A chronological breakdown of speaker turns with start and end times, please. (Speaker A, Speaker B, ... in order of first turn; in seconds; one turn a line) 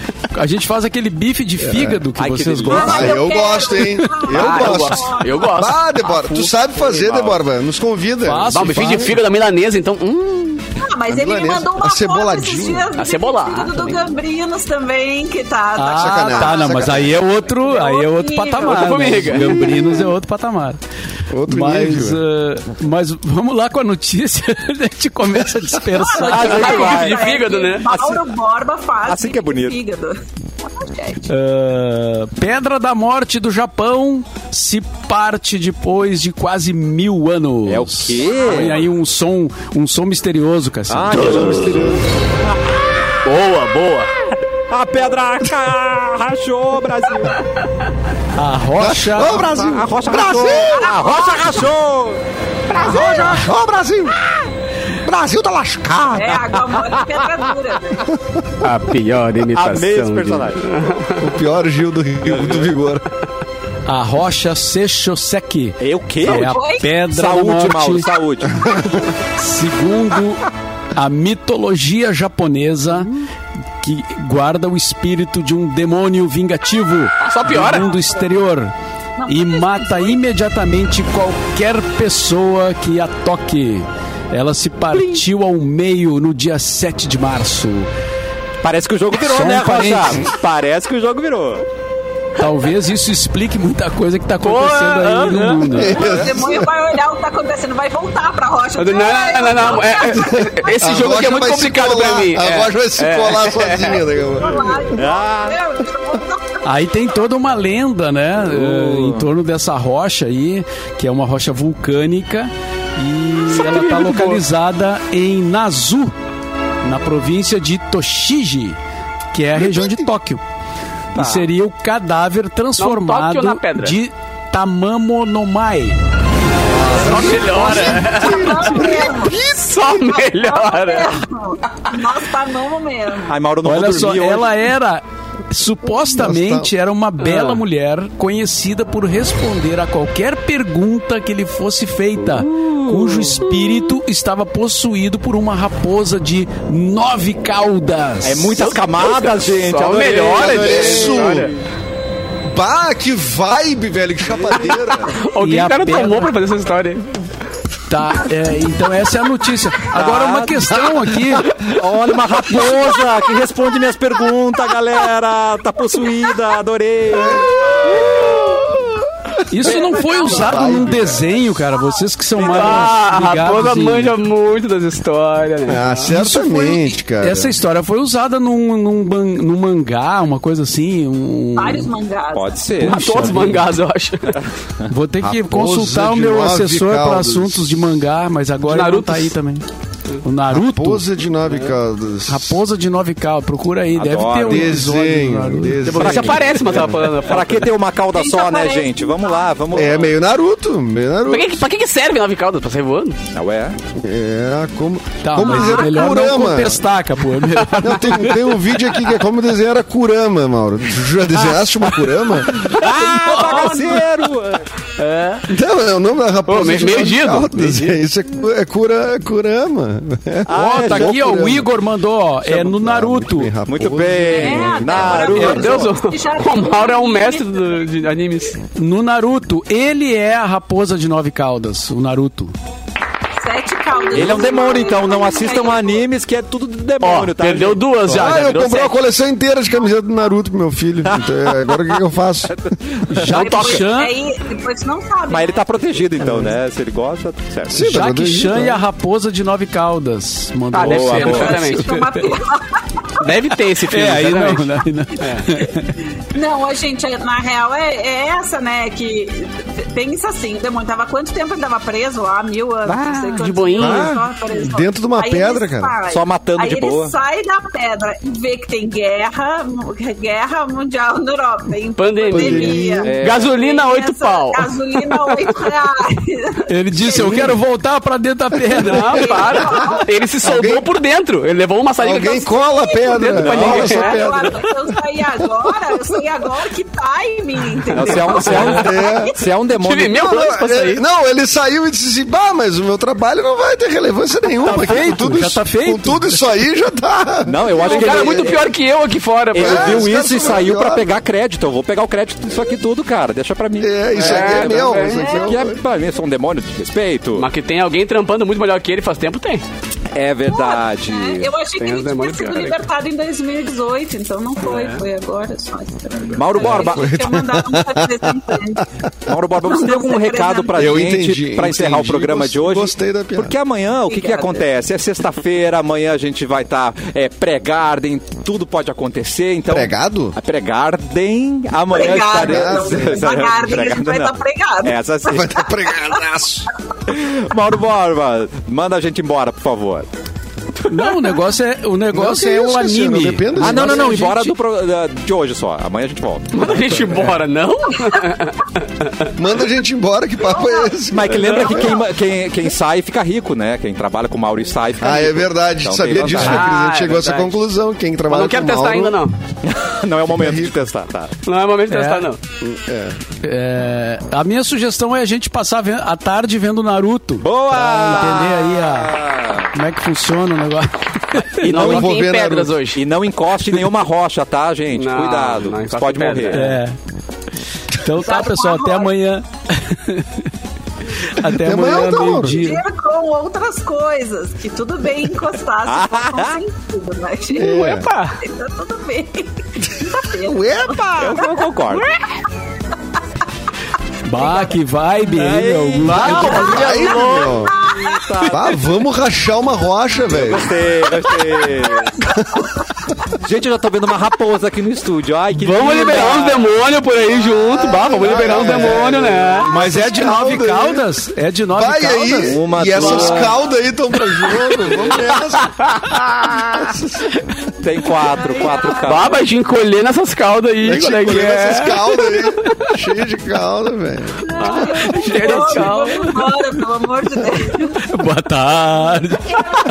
Speaker A: 0.3-3.2
Speaker B: 1.6-2.0
Speaker C: 2.1-3.1
Speaker D: 2.7-5.5
Speaker B: 2.7-9.2
Speaker E: 4.3-6.5
Speaker C: 6.8-7.4
Speaker A: 8.2-9.2
Speaker E: 8.5-10.7
Speaker D: 10.8-19.5
Speaker B: 11.1-12.9
Speaker E: 12.9-14.0
Speaker A: 15.8-20.8
Speaker B: 15.8-17.1
Speaker E: 18.6-19.9
Speaker B: 21.3-22.2
Speaker A: 21.5-26.9
Speaker D: 25.9-31.3
Speaker C: 26.2-28.2
Speaker E: 26.3-27.9
Speaker C: 29.1-29.8
Speaker A: 31.3-41.8
Speaker C: 37.6-38.9
Speaker C: 40.9-42.0
Speaker E: 41.1-41.8
Speaker B: 41.7-41.9
Speaker E: 43.2-44.1
Speaker C: 44.7-47.4
Speaker A: 48.4-49.5
Speaker B: 48.8-51.0
Speaker C: 49.2-52.2
Speaker D: 50.4-51.6
Speaker B: 52.7-54.3
Speaker D: 52.7-53.4
Speaker B: 55.0-56.5
Speaker D: 56.1-58.0
Speaker E: 58.6-61.2
Speaker C: 59.5-60.8
Speaker B: 61.2-63.0
Speaker C: 62.2-62.7
Speaker A: 63.9-68.1
Speaker C: 65.8-69.0
Speaker D: 66.2-66.9
Speaker A: 69.2-73.1
Speaker A: 73.8-78.7
Speaker E: 77.2-77.9
Speaker D: 77.5-78.4
Speaker D: 79.2-80.2
Speaker A: 79.3-87.9
Speaker C: 88.6-91.6
Speaker A: 89.1-90.3
Speaker A: 92.4-96.0
Speaker E: 94.4-95.8
Speaker B: 95.7-96.7
Speaker D: 95.8-100.8
Speaker E: 98.8-104.0
Speaker B: 100.1-104.9
Speaker D: 103.9-106.6
Speaker C: 104.9-105.6
Speaker A: 106.6-116.1
Speaker C: 108.5-109.3
Speaker E: 113.5-114.4
Speaker A: 116.8-118.8
Speaker A: 119.3-120.4
Speaker B: 119.6-120.0
Speaker C: 121.1-121.5
Speaker A: 121.1-126.0
Speaker E: 122.8-124.0
Speaker B: 126.7-129.4
Speaker E: 126.9-131.2
Speaker A: 127.0-127.9
Speaker D: 127.6-129.5
Speaker D: 130.1-133.4
Speaker C: 133.3-134.6
Speaker A: 133.6-148.6
Speaker B: 136.0-136.7
Speaker E: 137.2-137.6
Speaker C: 142.6-143.4
Speaker C: 148.2-151.3
Speaker E: 148.6-151.5
Speaker B: 150.3-151.5
Speaker B: 152.4-155.1
Speaker E: 154.7-157.2
Speaker A: 155.4-156.3
Speaker A: 157.9-161.8
Speaker C: 159.9-160.9
Speaker C: 161.5-168.6
Speaker B: 167.2-167.4
Speaker A: 169.5-174.2
Speaker D: 169.7-170.7
Speaker B: 170.2-171.3
Speaker C: 172.3-173.0
Speaker E: 172.5-175.9
Speaker B: 175.7-177.5
Speaker A: 175.9-181.9
Speaker D: 181.5-182.7
Speaker C: 182.3-183.4
Speaker A: 182.8-183.7
Speaker E: 182.8-184.4
Speaker A: 184.9-189.6
Speaker B: 185.2-187.9
Speaker E: 188.7-189.3
Speaker A: 190.2-191.0
Speaker B: 190.5-192.6
Speaker A: 192.3-196.1
Speaker C: 193.9-194.8
Speaker B: 194.4-196.9
Speaker E: 195.8-197.7
Speaker C: 196.0-200.1
Speaker D: 198.1-199.6
Speaker B: 199.7-201.6
Speaker E: 201.3-203.2
Speaker C: 203.3-203.8
Speaker B: 204.0-206.8
Speaker A: 205.2-208.4
Speaker E: 207.4-208.5
Speaker B: 207.8-212.7
Speaker C: 212.5-214.7
Speaker E: 212.9-213.8
Speaker D: 212.9-214.1
Speaker E: 215.0-215.5
Speaker B: 215.5-221.7
Speaker E: 216.5-217.9
Speaker C: 220.5-221.2
Speaker A: 220.5-223.5
Speaker B: 222.5-225.5
Speaker C: 223.7-226.0
Speaker D: 224.3-228.0
Speaker E: 225.2-228.6
Speaker A: 228.7-232.5
Speaker D: 233.4-236.1
Speaker C: 234.1-237.8
Speaker E: 237.0-239.0
Speaker B: 238.1-242.5
Speaker C: 241.1-242.0
Speaker C: 242.5-243.4
Speaker A: 243.1-244.1
Speaker E: 243.3-243.8
Speaker D: 243.3-246.5
Speaker C: 245.3-247.8
Speaker B: 247.7-248.8
Speaker A: 247.8-251.9
Speaker E: 250.7-252.3
Speaker C: 250.8-251.7
Speaker D: 251.1-253.2
Speaker E: 253.2-255.5
Speaker A: 253.5-256.0
Speaker D: 256.3-277.6
Speaker C: 262.9-264.2
Speaker E: 263.3-264.2
Speaker B: 263.9-265.9
Speaker C: 266.1-267.1
Speaker E: 272.0-275.6
Speaker B: 272.3-273.2
Speaker C: 273.0-273.5
Speaker A: 276.7-279.4
Speaker B: 277.0-277.5
Speaker E: 278.8-282.5
Speaker D: 279.1-280.1
Speaker B: 280.4-280.9
Speaker B: 282.0-284.7
Speaker D: 282.1-289.5
Speaker E: 283.1-284.4
Speaker C: 283.4-283.9
Speaker C: 287.9-290.3
Speaker E: 288.0-288.9
Speaker B: 288.7-289.3
Speaker E: 289.7-291.0
Speaker B: 290.2-298.4
Speaker A: 294.6-296.4
Speaker C: 297.4-298.6
Speaker E: 297.8-300.1
Speaker D: 297.8-298.5
Speaker C: 299.5-307.5
Speaker B: 299.5-301.1
Speaker B: 303.8-305.8
Speaker E: 304.1-305.4
Speaker D: 304.9-305.5
Speaker E: 307.4-309.6
Speaker C: 310.1-311.5
Speaker D: 310.5-318.9
Speaker E: 311.8-312.8
Speaker E: 314.6-315.0
Speaker E: 316.3-316.6
Speaker C: 316.3-317.2
Speaker B: 316.7-318.8
Speaker C: 319.2-335.6
Speaker D: 319.6-320.9
Speaker B: 320.7-323.5
Speaker D: 324.1-324.6
Speaker B: 329.7-330.3
Speaker D: 331.9-335.0
Speaker B: 332.1-333.4
Speaker B: 335.2-336.7
Speaker C: 337.1-340.1
Speaker A: 340.8-344.5
Speaker B: 342.1-344.4
Speaker C: 343.6-346.9
Speaker E: 346.5-349.3
Speaker B: 349.4-352.0
Speaker D: 350.5-350.9
Speaker C: 351.1-356.7
Speaker E: 351.4-351.9
Speaker B: 355.0-359.2
Speaker E: 356.2-357.6
Speaker E: 358.3-359.4
Speaker C: 359.6-361.4
Speaker B: 360.4-360.7
Speaker E: 361.4-362.4
Speaker A: 361.9-362.3
Speaker B: 362.6-363.2
Speaker A: 363.4-369.2
Speaker C: 367.4-369.7
Speaker A: 369.7-371.7
Speaker E: 371.6-373.0
Speaker C: 371.6-372.1
Speaker B: 371.7-372.7
Speaker C: 372.9-376.7
Speaker E: 374.9-376.8
Speaker A: 376.5-376.9
Speaker A: 377.9-380.4
Speaker D: 378.2-379.1
Speaker A: 381.2-382.8
Speaker B: 381.4-382.7
Speaker D: 382.5-391.9
Speaker C: 385.9-386.6
Speaker E: 387.5-388.4
Speaker B: 387.5-388.1
Speaker B: 390.4-391.4
Speaker C: 391.1-392.1
Speaker A: 394.2-396.7
Speaker D: 394.4-394.7
Speaker C: 395.3-397.2
Speaker E: 396.0-397.7
Speaker D: 396.4-398.3
Speaker B: 396.4-397.7
Speaker C: 397.8-398.7
Speaker B: 398.5-400.7
Speaker C: 400.3-402.2
Speaker B: 402.2-402.6
Speaker C: 403.4-406.7
Speaker E: 405.5-409.7
Speaker B: 407.7-411.1
Speaker C: 408.2-409.4
Speaker A: 409.6-412.6
Speaker B: 411.7-415.7
Speaker C: 412.4-413.5
Speaker E: 413.0-413.5
Speaker E: 414.3-416.2
Speaker B: 416.5-417.3
Speaker C: 417.8-419.4
Speaker D: 418.4-419.2
Speaker E: 419.0-422.9
Speaker B: 420.8-424.4
Speaker D: 424.5-428.0
Speaker E: 424.6-426.5
Speaker A: 424.7-426.4
Speaker A: 428.0-429.6